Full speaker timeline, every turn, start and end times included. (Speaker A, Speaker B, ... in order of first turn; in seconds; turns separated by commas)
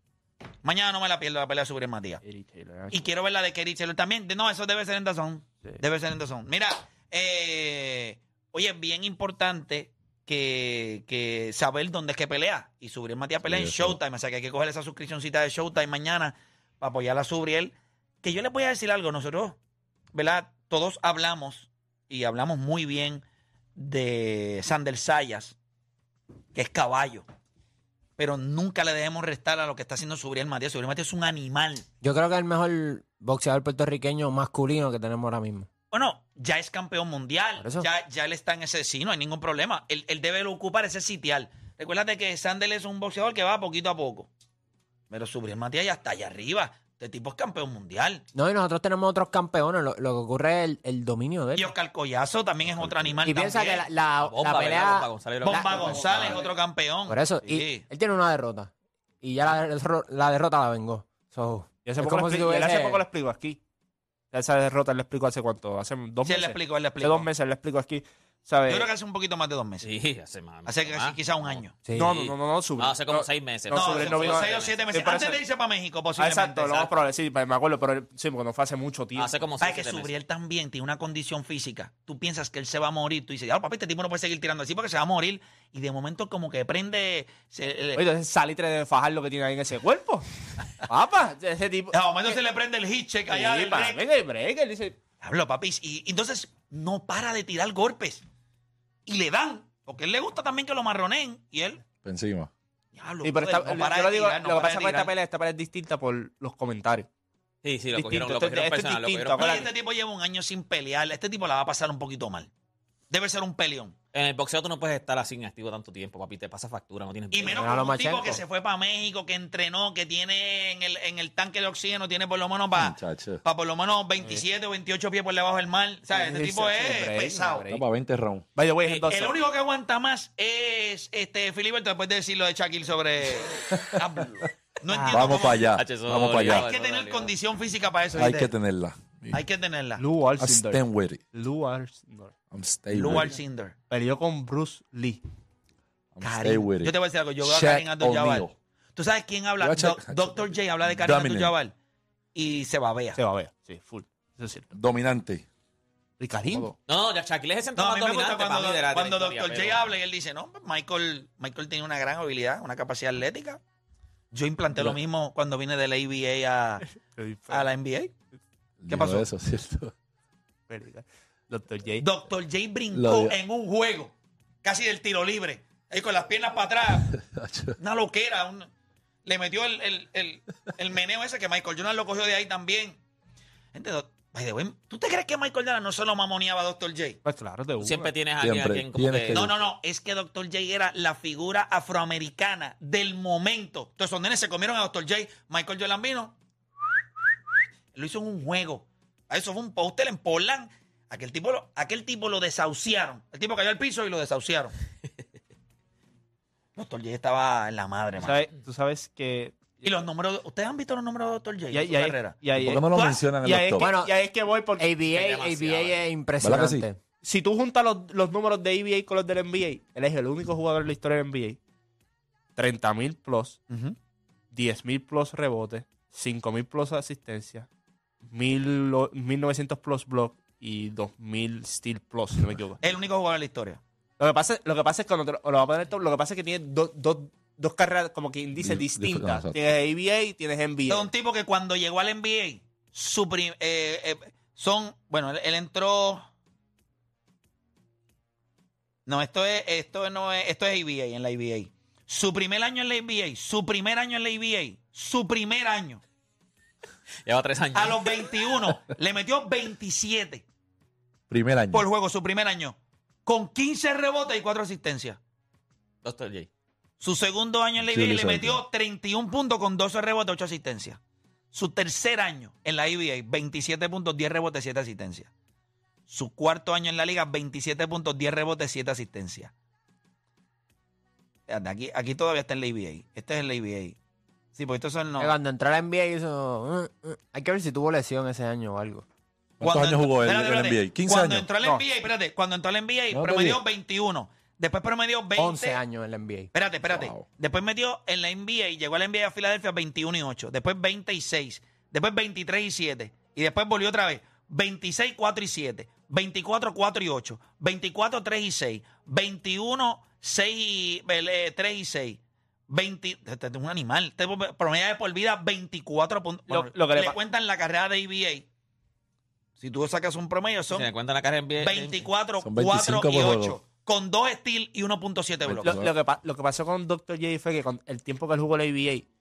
Speaker A: 0.6-2.2, Speaker B: 2.2-3.0, Speaker A: 2.9-19.6, Speaker C: 13.4-14.0, Speaker A: 20.1-23.2, Speaker A: 23.8-25.5, Speaker A: 26.5-27.2, Speaker A: 28.2-31.9, Speaker D: 32.0-35.7, Speaker A: 35.9-44.3, Speaker D: 37.6-37.9, Speaker A: 45.1-48.2, Speaker D: 48.3-51.7, Speaker A: 51.5-53.9, Speaker C: 52.6-53.2, Speaker D: 53.2-56.2, Speaker E: 54.2-56.1, Speaker A: 55.4-57.9, Speaker B: 55.7-56.5, Speaker D: 57.1-63.0, Speaker B: 61.8-63.6, Speaker B: 64.3-68.9, Speaker A: 66.2-67.3, Speaker A: 68.7-69.9, Speaker E: 69.8-74.8, Speaker A: 70.7-71.8, Speaker D: 71.8-72.1, Speaker B: 71.9-75.4, Speaker A: 73.7-76.9, Speaker B: 76.2-79.3, Speaker E: 79.2-80.1, Speaker A: 79.6-88.0, Speaker B: 87.9-90.2, Speaker B: 90.8-92.4, Speaker A: 91.9-94.0, Speaker B: 93.3-95.0, Speaker A: 95.2-98.2, Speaker A: 99.0-101.8, Speaker C: 102.0-102.5, Speaker A: 102.9-105.1, Speaker B: 103.2-107.1, Speaker E: 107.6-109.6, Speaker B: 107.9-109.7, Speaker A: 109.3-112.5, Speaker A: 113.1-113.9, Speaker E: 114.1-117.7, Speaker A: 117.3-127.7, Speaker D: 117.4-118.4, Speaker C: 122.7-123.4, Speaker B: 126.1-127.8, Speaker C: 127.7-128.4, Speaker B: 128.6-129.4, Speaker A: 128.9-135.7, Speaker C: 133.7-134.4, Speaker B: 134.9-135.3, Speaker C: 135.0-136.7, Speaker E: 135.5-137.3, Speaker A: 136.4-138.5, Speaker C: 138.1-139.4, Speaker A: 139.3-140.0, Speaker B: 140.0-142.3, Speaker C: 140.4-141.2, Speaker C: 142.5-143.3, Speaker A: 142.9-143.7, Speaker B: 143.9-145.2, Speaker C: 146.2-148.5, Speaker A: 146.2-151.7, Speaker C: 149.6-151.5, Speaker A: 152.3-153.2, Speaker B: 153.2-154.7, Speaker C: 154.7-155.4, Speaker B: 156.2-156.7, Speaker C: 156.5-156.7, Speaker E: 156.9-159.9, Speaker A: 157.8-163.6, Speaker A: 164.3-166.8, Speaker B: 167.1-167.7, Speaker A: 167.5-168.1, Speaker C: 168.8-169.9, Speaker A: 168.9-169.3, Speaker B: 170.7-172.1, Speaker A: 172.0-174.1, Speaker C: 172.9-173.3, Speaker A: 174.6-177.1, Speaker C: 177.1-177.8, Speaker A: 177.8-178.7, Speaker A: 179.2-183.0, Speaker A: 183.7-187.2, Speaker B: 187.2-188.1, Speaker E: 187.8-189.4, Speaker C: 188.4-189.5, Speaker A: 189.3-196.4, Speaker A: 197.9-204.7, Speaker A: 206.8-208.4, Speaker B: 208.2-209.9, Speaker A: 209.8-213.3, Speaker B: 211.7-215.0, Speaker C: 212.5-213.9, Speaker D: 213.8-214.1, Speaker D: 214.8-217.0, Speaker E: 215.1-216.0, Speaker C: 216.4-216.8, Speaker B: 217.2-221.6, Speaker B: 222.6-223.6, Speaker A: 223.7-223.9, Speaker B: 224.5-227.7, Speaker B: 228.2-232.8, Speaker A: 232.8-233.8, Speaker B: 234.2-241.1, Speaker C: 238.6-239.6, Speaker A: 240.9-246.2, Speaker A: 249.1-256.0, Speaker E: 257.2-258.2, Speaker A: 257.7-260.4, Speaker C: 261.3-261.9, Speaker A: 261.7-265.2, Speaker E: 266.0-266.5, Speaker A: 267.0-271.0, Speaker C: 267.8-268.6, Speaker A: 271.5-275.3, Speaker A: 276.1-279.5, Speaker A: 281.5-283.9, Speaker A: 284.5-285.3, Speaker D: 285.2-289.1, Speaker C: 289.6-291.5, Speaker A: 289.6-295.8, Speaker B: 291.6-291.9, Speaker C: 293.1-293.6, Speaker D: 295.4-296.5, Speaker A: 296.5-318.4, Speaker C: 296.9-297.2, Speaker B: 316.5-317.2, Speaker A: 319.6-320.9, Speaker E: 320.7-322.1, Speaker A: 321.6-325.8, Speaker C: 322.4-323.6, Speaker C: 325.4-325.9, Speaker B: 325.6-329.1